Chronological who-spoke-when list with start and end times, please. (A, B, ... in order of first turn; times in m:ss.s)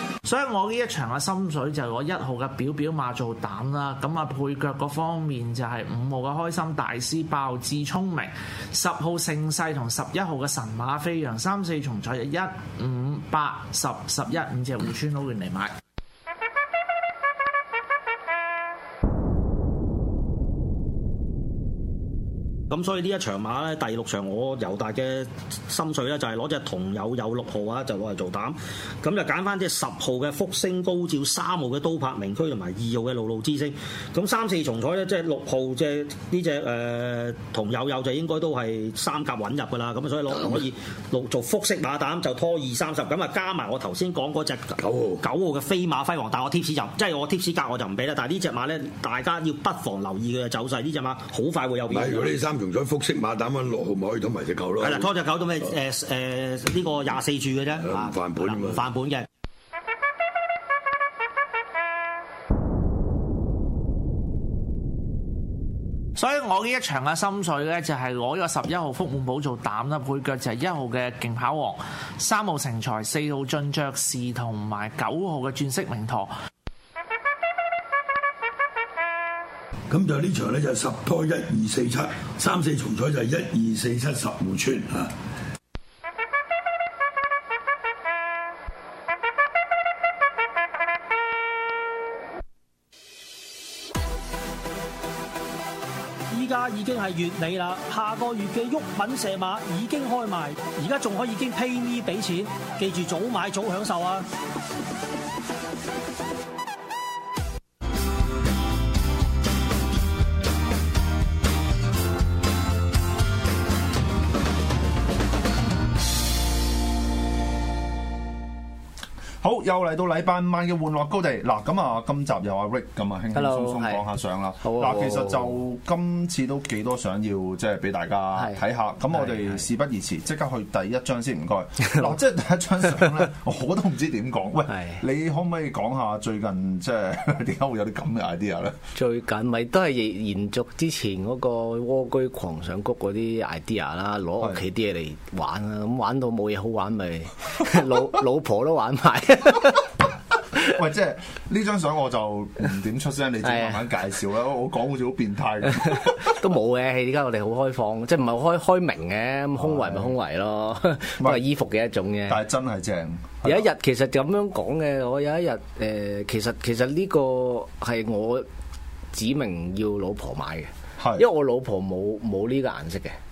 0:00.2-0:15.7 A
0:22.7-0:52.4 B
0:44.8-0:45.2 C
0:51.9-0:55.1 C
0:54.8-0:59.2 B
0:57.7-0:58.9 C
1:06.2-1:16.3 A
1:19.9-1:25.1 C
1:36.3-1:44.2 D
1:59.4-2:18.8 E
2:03.3-2:04.0 F
2:04.6-2:05.6 F
2:08.4-2:09.6 F
2:14.7-2:15.0 F
2:18.9-2:29.9 F
2:30.6-2:36.4 E
2:33.4-2:34.0 F
2:35.7-2:42.4 F
2:39.6-2:40.2 E
2:42.2-2:43.7 E
2:43.4-2:48.4 F
2:49.1-2:53.2 F
2:51.0-2:51.2 E